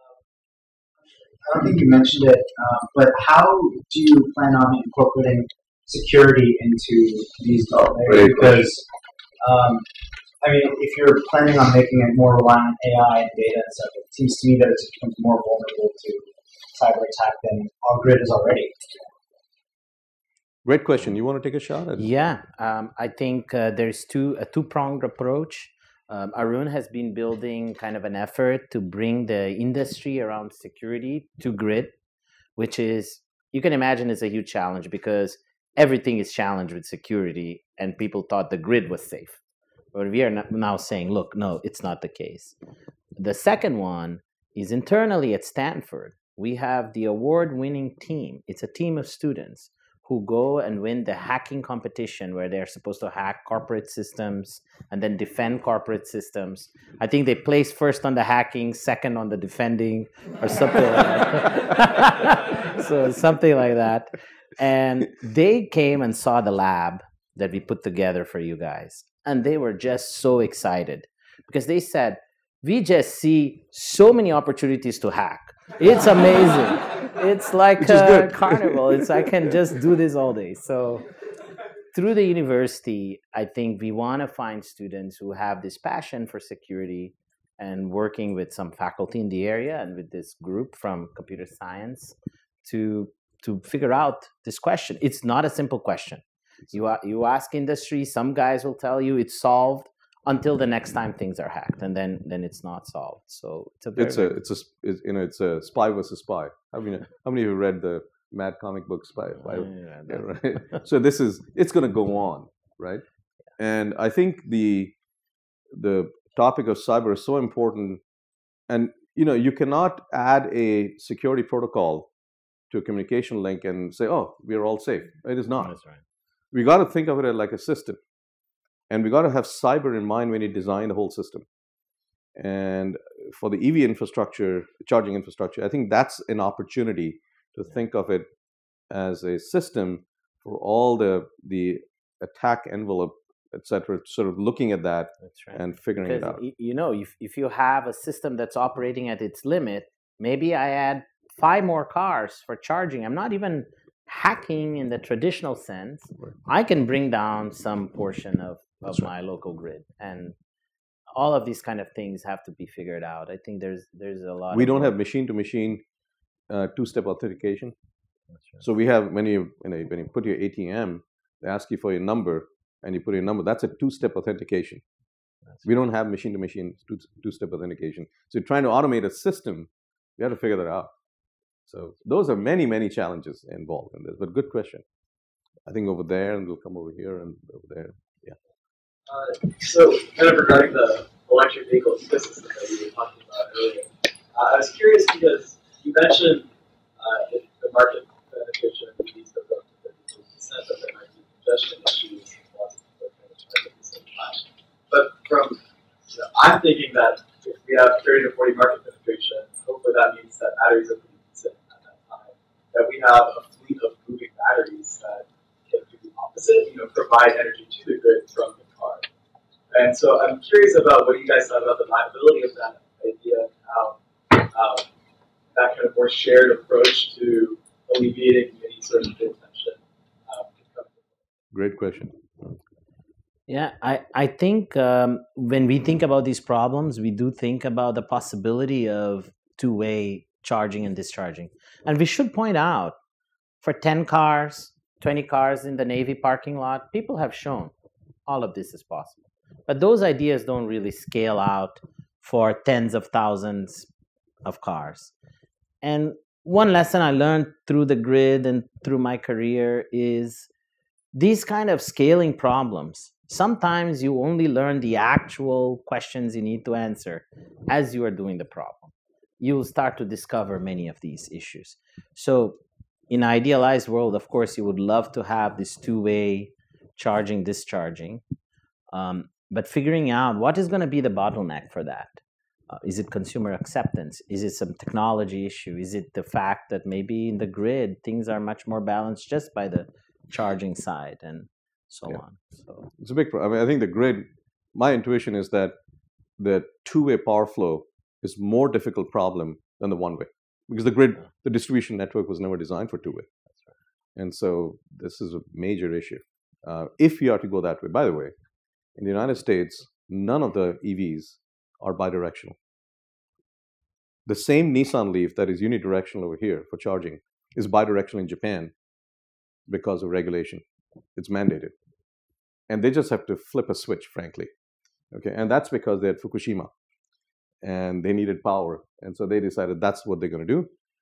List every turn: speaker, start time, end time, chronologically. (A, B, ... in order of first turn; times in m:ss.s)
0:01.4-0:08.8 A
0:09.4-0:09.9 A
0:10.4-0:18.8 A
0:20.6-0:22.1 B
0:22.0-0:31.9 C
0:32.6-0:39.4 C
0:39.9-0:42.5 C
0:43.2-1:21.1 C
1:17.8-1:19.1 B
1:21.9-1:44.4 C
1:44.0-1:53.0 B
1:49.4-1:50.8 C
1:53.6-1:54.9 B
1:55.7-1:58.0 B
1:58.7-2:02.1 B
2:02.7-2:05.7 B
2:05.6-2:06.0 C
2:06.5-2:08.0 B
2:08.9-2:11.4 B
2:12.4-2:18.3 B
2:18.9-2:26.4 B
2:25.4-2:40.3 C
2:41.1-2:44.9 C
2:44.5-2:45.8 B
2:46.5-2:47.7 B
2:48.6-2:54.8 B
2:55.6-3:00.9 B
3:01.7-3:04.8 B
3:05.7-3:08.4 B
3:09.1-3:39.1 D
3:39.7-3:44.9 D
3:45.5-3:51.0 D
3:51.5-3:52.5 B
3:53.5-4:03.0 C
4:03.6-4:07.7 C
4:08.3-4:13.9 C
4:14.4-4:15.1 C
4:15.8-4:20.5 C
4:21.1-4:32.6 C
4:33.1-4:38.2 C
4:38.9-4:52.9 C
4:53.0-4:55.8 B
4:56.4-5:03.3 B
5:04.2-5:08.3 B
5:09.0-5:12.6 B
5:14.2-5:18.7 B
5:19.7-5:20.6 B
5:21.2-5:21.7 B
5:22.7-5:24.5 B
5:25.1-5:26.7 B
5:27.6-5:30.7 B